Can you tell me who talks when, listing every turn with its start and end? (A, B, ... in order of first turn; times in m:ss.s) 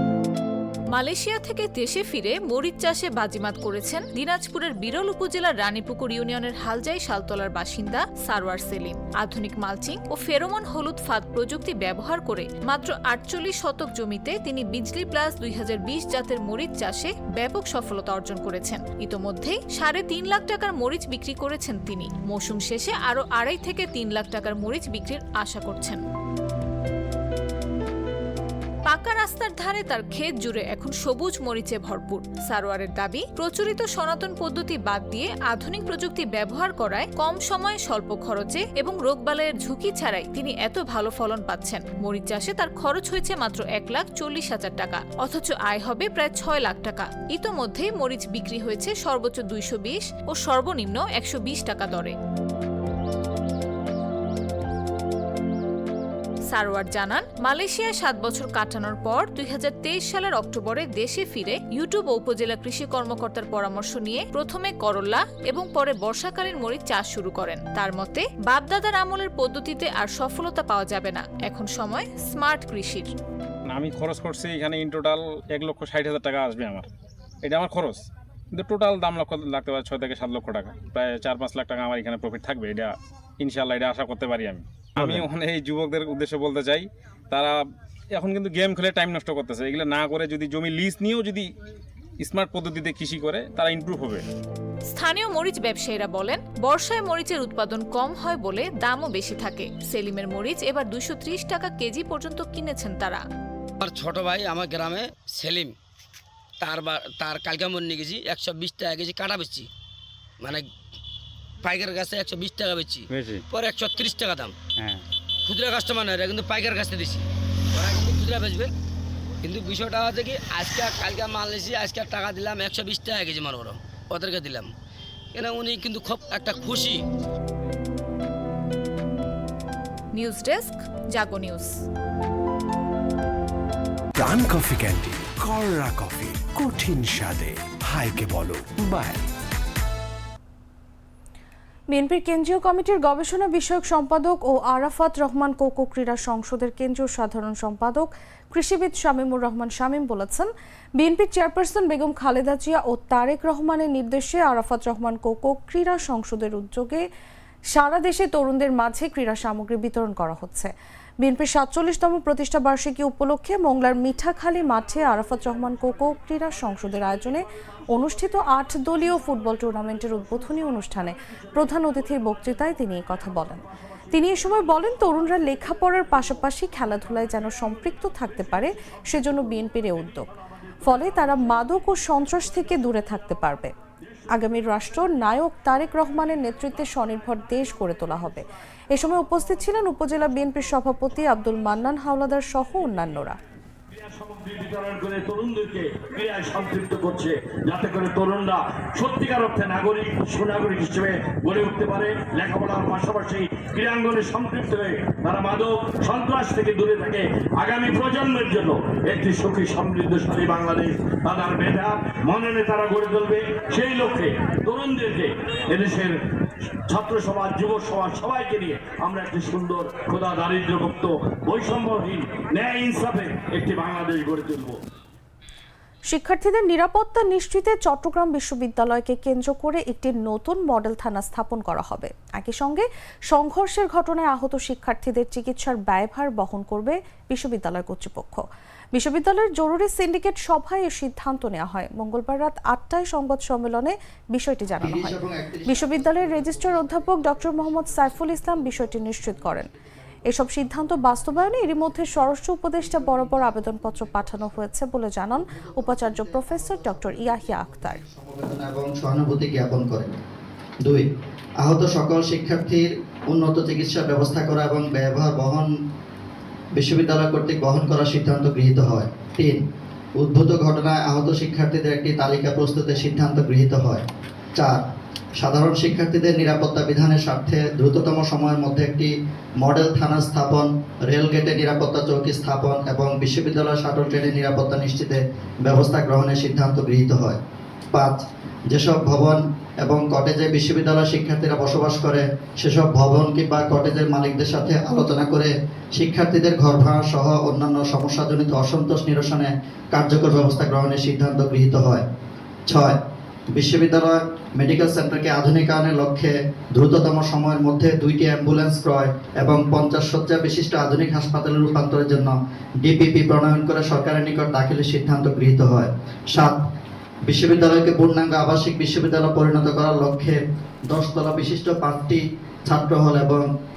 0:00.9-0:26.0 A
0:28.8-0:52.1 A
0:56.5-1:13.1 A
1:13.7-1:16.9 B
1:17.4-1:27.6 B
1:28.1-1:31.5 B
1:32.2-1:34.2 B
1:34.9-1:43.2 A
1:43.8-1:45.7 C
1:46.6-1:49.7 C
1:50.4-1:50.7 C
1:51.6-1:54.6 C
1:55.4-1:57.2 C
1:57.7-1:58.7 C
1:59.4-2:04.7 C
2:05.3-2:07.0 C
2:10.1-2:11.7 A
2:14.2-2:19.2 D
2:21.9-2:37.0 E
2:37.7-3:00.3 E
3:00.8-3:03.7 E
3:04.3-3:13.4 E
3:14.1-3:35.2 F
3:37.0-3:44.7 F
3:46.1-4:09.7 E
4:04.8-4:05.9 G
4:10.3-4:18.0 E
4:18.0-4:20.1 G
4:21.6-4:25.7 G
4:26.8-4:29.6 G
4:30.2-4:34.0 G
4:34.6-4:34.8 G
4:35.4-4:47.4 G
4:47.9-5:02.0 G
5:02.7-5:03.0 G
5:03.5-5:16.6 G
5:17.3-5:23.4 G